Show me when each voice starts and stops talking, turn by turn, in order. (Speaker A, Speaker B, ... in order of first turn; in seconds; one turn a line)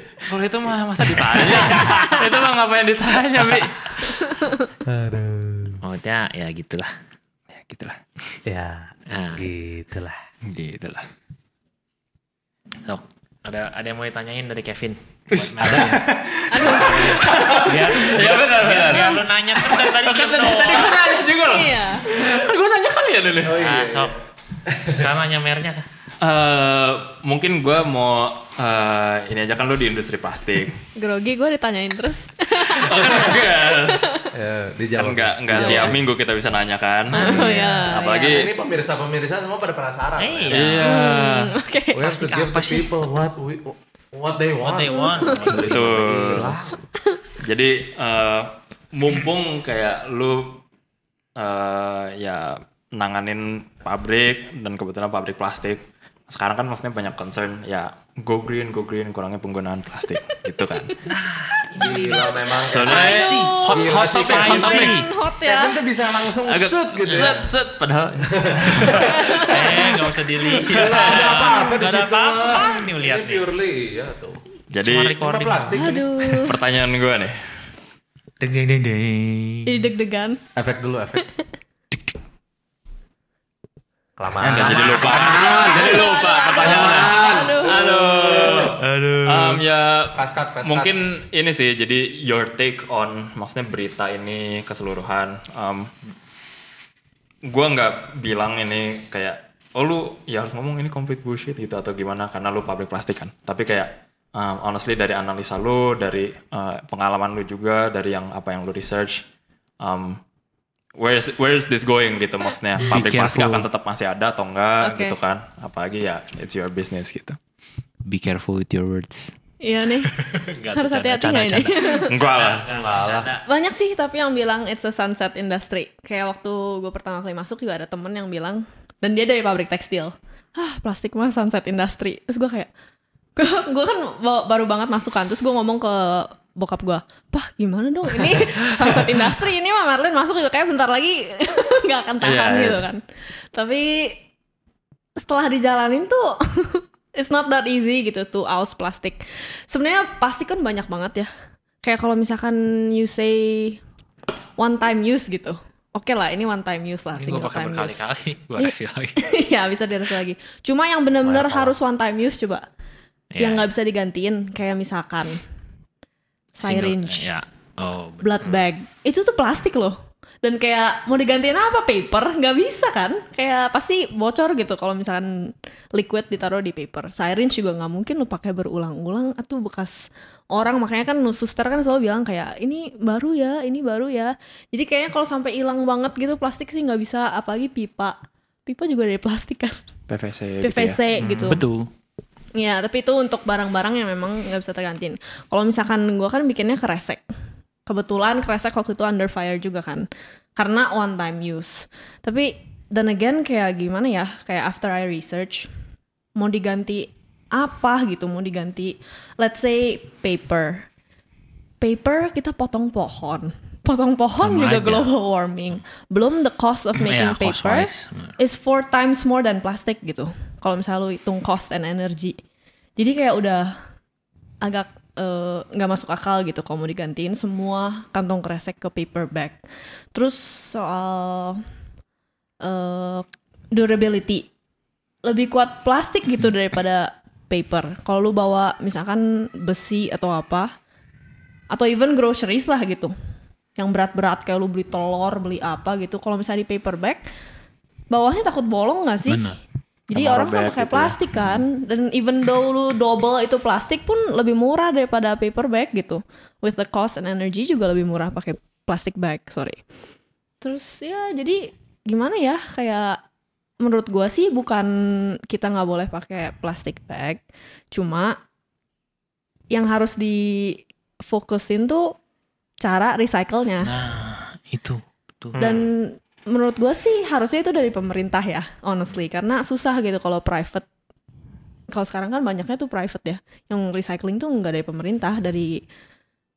Speaker A: 0.2-4.4
Speaker B: 1.2-2.2
Speaker B: 3.4-3.6
Speaker C: 4.8-5.8
Speaker B: 5.8-6.9
Speaker A: 7.5-8.0
Speaker C: 8.4-10.2
Speaker B: 9.1-9.5
Speaker A: 10.4-11.1
Speaker B: 12.8-16.0
Speaker A: 15.3-23.6
Speaker D: 16.5-17.2
Speaker B: 16.7-21.0
Speaker C: 16.8-17.6
Speaker D: 18.9-19.2
Speaker D: 20.6-22.1
Speaker C: 23.4-24.2
Speaker B: 23.5-24.1
Speaker C: 24.7-25.0
Speaker B: 24.9-25.9
Speaker A: 26.2-30.8
Speaker D: 31.0-34.3
Speaker A: 32.6-34.1
Speaker C: 34.3-36.0
Speaker A: 35.0-38.5
Speaker B: 37.1-37.9
Speaker D: 37.2-38.4
Speaker C: 38.1-40.7
Speaker B: 40.2-41.0
Speaker A: 40.5-41.5
Speaker D: 40.8-42.5
Speaker C: 41.9-46.8
Speaker B: 42.2-42.8
Speaker B: 44.6-45.9
Speaker D: 45.1-45.5
Speaker A: 45.5-46.6
Speaker A: 47.4-50.6
Speaker A: 51.4-61.0
Speaker B: 61.1-65.0
Speaker C: 61.7-67.5
Speaker A: 62.6-64.9
Speaker D: 62.8-65.8
Speaker A: 66.5-69.1
Speaker B: 67.1-67.3
Speaker C: 68.2-69.5
Speaker D: 69.1-69.9
Speaker B: 69.4-73.5
Speaker C: 70.6-74.4
Speaker A: 74.7-75.2
Speaker B: 74.8-75.8
Speaker C: 75.2-76.1
Speaker D: 75.7-76.5
Speaker A: 76.4-77.6
Speaker B: 78.4-79.8
Speaker D: 79.7-80.4
Speaker C: 80.5-81.2
Speaker C: 84.2-86.1
Speaker A: 84.4-95.9
Speaker B: 84.7-85.1
Speaker D: 85.0-87.8
Speaker C: 86.6-88.8
Speaker B: 88.8-89.6
Speaker C: 90.2-90.9
Speaker A: 97.5-109.2
Speaker A: 109.8-110.2
Speaker A: 111.0-117.4
Speaker B: 112.8-113.7
Speaker D: 114.8-115.2
Speaker B: 118.1-119.3
Speaker D: 119.6-120.1
Speaker B: 120.0-123.4
Speaker D: 120.7-122.1
Speaker A: 122.1-122.7
Speaker C: 122.6-123.4
Speaker D: 123.5-132.7
Speaker D: 133.4-143.0
Speaker A: 142.2-142.9
Speaker D: 143.5-144.2
Speaker D: 145.2-151.3
Speaker D: 151.8-153.8
Speaker D: 154.6-158.0
Speaker B: 157.2-159.4
Speaker D: 158.6-162.7
Speaker C: 161.2-161.7
Speaker B: 163.3-163.7
Speaker D: 163.4-165.4
Speaker D: 166.6-167.3
Speaker B: 166.6-168.5
Speaker D: 168.2-189.8
Speaker C: 168.4-168.7
Speaker A: 190.1-191.0
Speaker D: 190.6-191.6
Speaker B: 191.2-191.9
Speaker D: 192.6-197.2
Speaker D: 197.9-205.7
Speaker D: 206.4-210.9
Speaker D: 211.8-222.4
Speaker B: 214.4-215.1
Speaker B: 217.0-218.3
Speaker D: 223.0-223.7
Speaker D: 224.6-229.6
Speaker D: 230.1-231.6
Speaker D: 232.6-234.5
Speaker D: 235.2-240.7
Speaker D: 241.7-243.1
Speaker D: 243.8-247.3
Speaker D: 248.1-249.4
Speaker B: 249.3-249.6
Speaker D: 250.1-259.8
Speaker A: 250.1-251.2
Speaker D: 260.6-263.2
Speaker D: 263.8-268.4
Speaker D: 269.7-272.1
Speaker D: 272.8-273.9
Speaker B: 273.8-275.6
Speaker C: 275.6-275.9
Speaker D: 275.6-280.9
Speaker D: 281.9-285.8